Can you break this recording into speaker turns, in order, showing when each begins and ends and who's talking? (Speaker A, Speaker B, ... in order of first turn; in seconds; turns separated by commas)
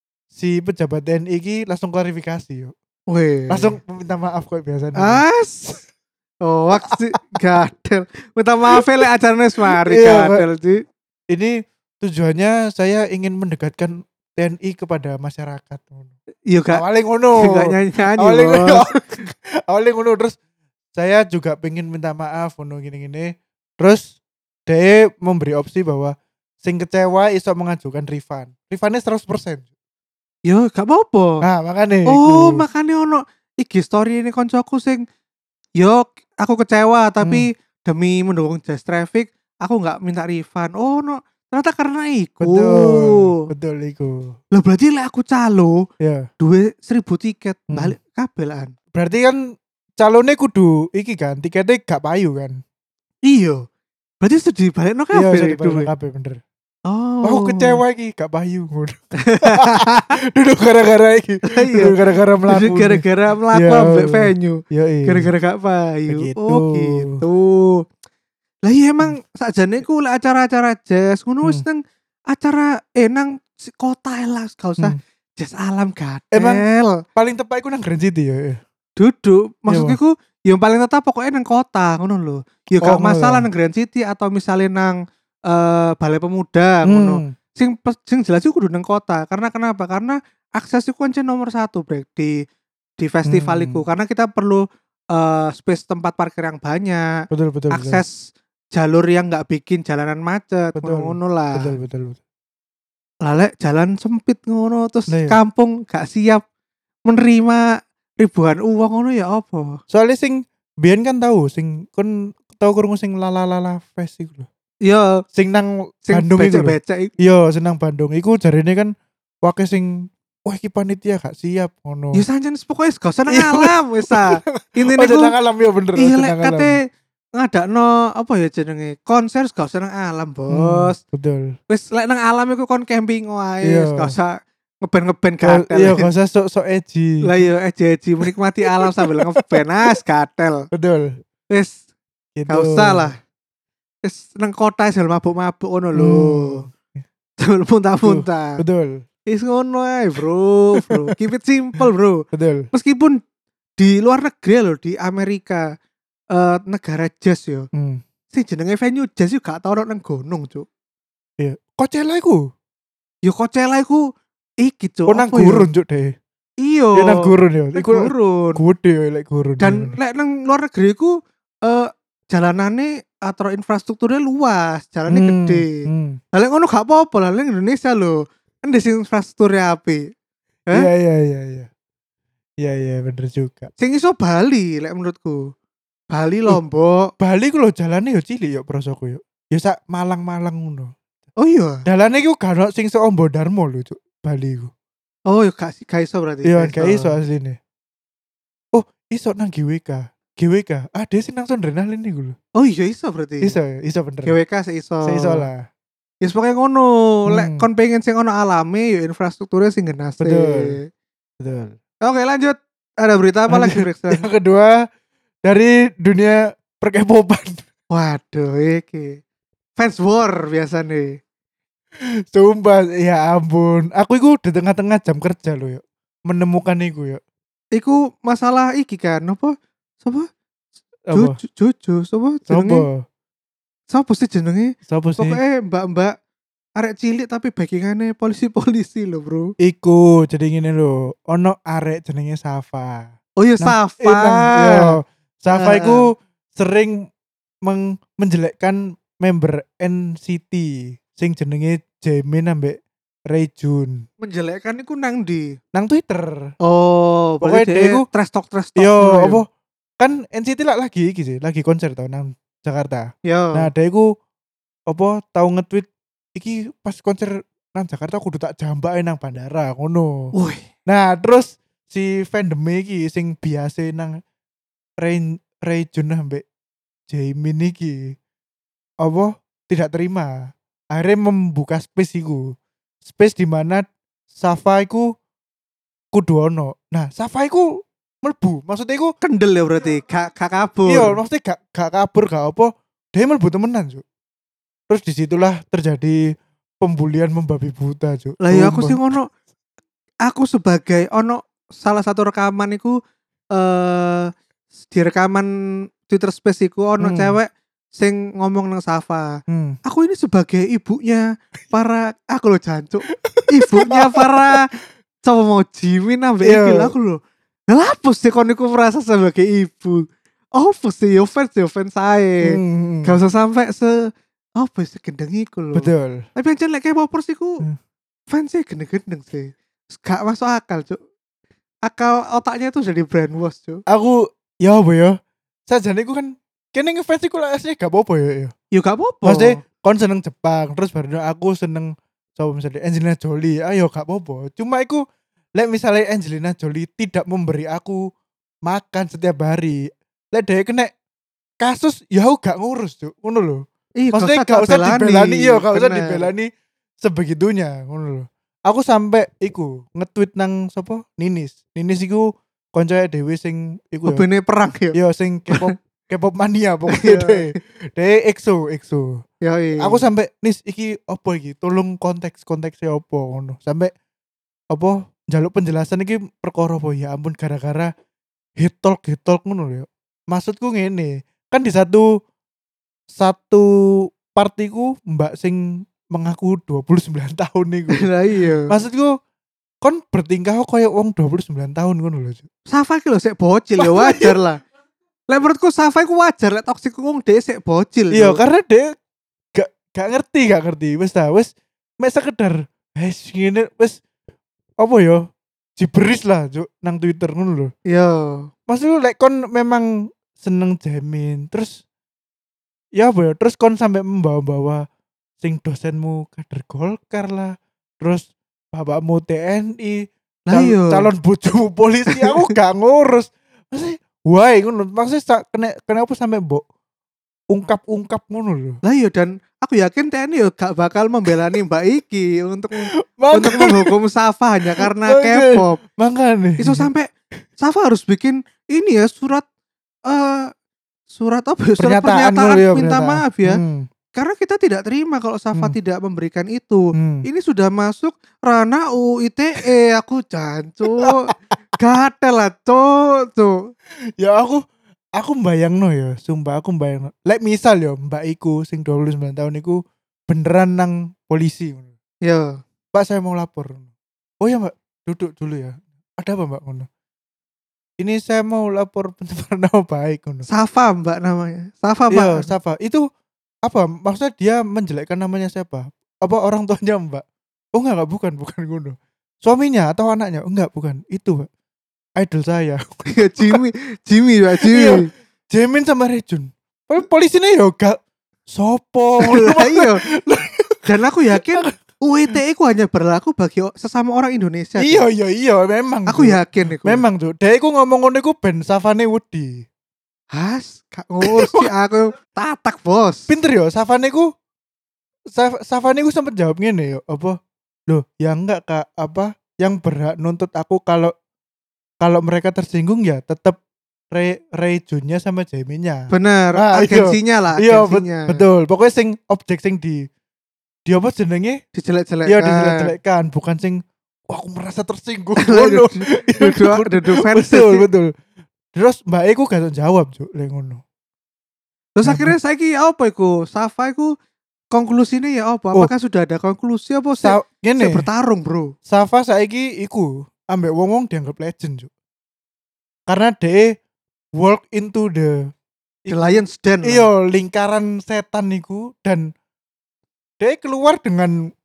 Speaker A: 0.3-2.7, Speaker B: 3.1-3.8, Speaker A: 3.5-5.2, Speaker B: 5.0-5.8, Speaker B: 6.5-10.8, Speaker A: 9.8-10.4, Speaker A: 11.3-16.1, Speaker B: 16.5-16.8, Speaker A: 16.7-20.4, Speaker B: 17.4-19.2, Speaker A: 20.9-24.0, Speaker A: 24.7-29.7, Speaker B: 30.5-31.4, Speaker A: 31.4-32.6, Speaker B: 32.1-35.0, Speaker B: 35.8-43.4, Speaker A: 42.4-44.4, Speaker B: 44.5-45.8, Speaker A: 46.0-46.3, Speaker B: 46.4-48.7, Speaker A: 48.9-49.4, Speaker A: 50.0-52.6, Speaker B: 53.2-53.6, Speaker B: 54.2-55.9, Speaker A: 55.1-56.4, Speaker B: 56.9-57.8, Speaker A: 57.2-63.0, Speaker B: 59.2-60.2, Speaker B: 61.5-62.0, Speaker B: 62.5-67.8, Speaker A: 63.5-65.3, Speaker A: 66.1-67.2, Speaker B: 68.7-71.8, Speaker B: 72.3-77.0, Speaker A: 76.3-76.6, Speaker A: 77.2-78.6, Speaker B: 79.0-85.0, Speaker A: 79.7-80.0, Speaker A: 82.8-83.5, Speaker B: 85.5-92.4, Speaker A: 86.8-87.3, Speaker B: 93.0-97.1, Speaker A: 93.3-93.8, Speaker A: 97.3-98.0, Speaker B: 97.7-98.2, Speaker B: 98.7-101.7, Speaker A: 100.8-102.2, Speaker B: 103.2-106.4, Speaker A: 105.1-105.4, Speaker B: 107.1-107.7, Speaker B: 108.2-109.8, Speaker A: 109.9-114.5, Speaker B: 114.8-115.2, Speaker A: 115.3-122.2, Speaker B: 116.1-117.1, Speaker B: 122.1-125.3, Speaker A: 123.3-126.8, Speaker B: 126.0-126.8, Speaker B: 127.4-131.0, Speaker A: 130.5-131.5, Speaker B: 131.7-136.1, Speaker A: 133.6-134.1, Speaker A: 135.4-137.2, Speaker B: 137.2-140.7, Speaker A: 138.8-139.6, Speaker A: 140.7-141.2, Speaker B: 141.5-141.8, Speaker A: 142.4-143.1, Speaker B: 142.5-143.2, Speaker B: 144.0-146.7, Speaker A: 146.0-147.0, Speaker B: 147.4-148.6, Speaker A: 148.0-149.0, Speaker B: 149.3-153.2, Speaker A: 150.8-151.1, Speaker A: 152.3-152.7, Speaker B: 153.8-155.7, Speaker B: 156.3-157.7, Speaker A: 157.7-158.0, Speaker B: 158.3-160.7, Speaker A: 161.4-162.4, Speaker B: 163.3-164.1, Speaker B: 164.6-165.7, Speaker A: 165.1-166.2, Speaker B: 166.6-168.6, Speaker A: 166.9-170.0, Speaker B: 169.6-180.0, Speaker A: 175.1-176.2, Speaker A: 180.7-181.7, Speaker A: 182.6-183.7, Speaker B: 183.8-185.5, Speaker B: 186.1-187.1, Speaker A: 187.2-190.9, Speaker B: 191.4-191.8, Speaker A: 191.9-194.7, Speaker B: 195.3-197.2, Speaker A: 196.4-197.6, Speaker A: 198.7-202.4, Speaker B: 202.6-203.6, Speaker A: 203.4-204.3, Speaker B: 204.2-205.5, Speaker A: 205.0-205.7, Speaker B: 206.2-210.8, Speaker A: 207.3-207.7, Speaker A: 210.2-210.8, Speaker A: 211.4-211.8, Speaker B: 212.0-214.3, Speaker A: 213.5-214.8, Speaker A: 215.4-217.7, Speaker B: 217.9-219.2, Speaker B: 219.8-221.2, Speaker A: 222.3-227.2, Speaker B: 227.8-230.3, Speaker A: 231.1-231.4, Speaker B: 231.1-232.9, Speaker A: 232.5-233.0, Speaker B: 233.9-236.1, Speaker A: 234.9-235.4, Speaker B: 236.8-239.5, Speaker A: 239.6-247.0, Speaker B: 243.4-245.0, Speaker B: 245.5-246.1, Speaker A: 247.7-254.0, Speaker B: 254.2-255.6, Speaker A: 255.7-256.5, Speaker B: 256.6-259.4, Speaker A: 257.4-258.1, Speaker A: 258.8-259.5, Speaker A: 260.0-264.1, Speaker B: 263.3-263.7, Speaker A: 264.9-270.3, Speaker B: 270.3-270.6, Speaker A: 270.9-274.2, Speaker A: 275.0-276.4, Speaker A: 277.1-278.1, Speaker A: 279.0-280.4, Speaker A: 280.9-282.5, Speaker A: 283.0-285.1, Speaker A: 286.1-287.7, Speaker A: 288.2-289.1, Speaker B: 289.2-291.2, Speaker A: 290.9-294.0, Speaker A: 294.9-296.2, Speaker A: 296.8-299.1, Speaker B: 298.4-299.3, Speaker B: 300.3-303.0, Speaker B: 303.6-304.3, Speaker B: 304.9-305.5, Speaker B: 306.1-314.7, Speaker A: 307.0-307.4, Speaker A: 309.5-309.8, Speaker A: 313.2-314.6, Speaker B: 315.2-317.2, Speaker A: 316.4-316.9, Speaker B: 317.7-320.0, Speaker B: 320.6-327.6, Speaker A: 322.4-323.1, Speaker A: 325.7-326.3, Speaker B: 328.3-331.0, Speaker B: 331.9-333.8, Speaker A: 333.9-335.2, Speaker A: 335.7-338.5, Speaker B: 338.7-339.6, Speaker A: 339.2-345.0, Speaker A: 345.6-348.0, Speaker A: 348.7-350.9, Speaker A: 351.6-356.5, Speaker B: 354.0-356.3, Speaker A: 357.0-364.2, Speaker B: 364.1-365.0, Speaker A: 364.9-369.2, Speaker B: 366.9-367.5, Speaker B: 369.4-370.0, Speaker A: 369.8-373.9, Speaker A: 374.7-377.9, Speaker A: 378.6-382.1, Speaker A: 383.1-383.6, Speaker A: 384.2-388.1, Speaker B: 387.9-388.7, Speaker A: 388.7-389.1, Speaker A: 389.8-392.5, Speaker B: 392.7-394.6, Speaker A: 393.8-394.4, Speaker B: 395.3-398.4, Speaker A: 398.1-398.9, Speaker A: 399.5-404.0, Speaker A: 404.8-405.2, Speaker A: 405.8-407.7, Speaker B: 407.9-408.5, Speaker A: 408.7-411.8, Speaker A: 413.0-414.8, Speaker A: 415.4-426.6, Speaker B: 420.5-421.1, Speaker B: 422.1-422.5, Speaker A: 427.5-428.8, Speaker B: 428.8-435.8, Speaker A: 433.1-433.9, Speaker A: 434.8-436.9, Speaker B: 436.6-439.4, Speaker B: 440.1-440.5, Speaker B: 441.1-443.6, Speaker A: 441.8-443.9, Speaker B: 444.1-453.7, Speaker A: 447.0-447.3, Speaker A: 451.0-451.3, Speaker A: 454.2-454.6, Speaker A: 455.2-461.9, Speaker B: 462.2-462.6, Speaker A: 462.9-463.9, Speaker A: 464.4-466.9, Speaker A: 468.0-470.5, Speaker B: 470.5-472.5, Speaker A: 472.1-473.0, Speaker A: 473.7-481.5, Speaker A: 482.2-483.6, Speaker B: 483.1-485.1, Speaker A: 484.6-488.0, Speaker A: 488.5-491.7, Speaker B: 489.2-490.0, Speaker B: 490.9-495.1, Speaker A: 494.8-499.6, Speaker B: 496.1-497.0, Speaker B: 500.3-503.3, Speaker A: 501.2-501.7, Speaker A: 503.3-504.3, Speaker A: 505.3-507.4, Speaker A: 507.9-511.1, Speaker A: 512.0-513.6, Speaker A: 514.1-520.1, Speaker B: 516.1-518.4, Speaker A: 520.9-521.6, Speaker B: 521.8-522.9, Speaker A: 522.3-528.1, Speaker B: 525.4-527.9, Speaker A: 528.7-530.8, Speaker B: 532.0-534.1, Speaker A: 532.0-532.3, Speaker B: 534.7-538.7, Speaker A: 537.2-538.0, Speaker A: 538.9-541.9, Speaker A: 543.1-543.8, Speaker A: 544.4-545.4, Speaker A: 546.0-549.2, Speaker B: 546.1-547.1, Speaker A: 550.4-551.4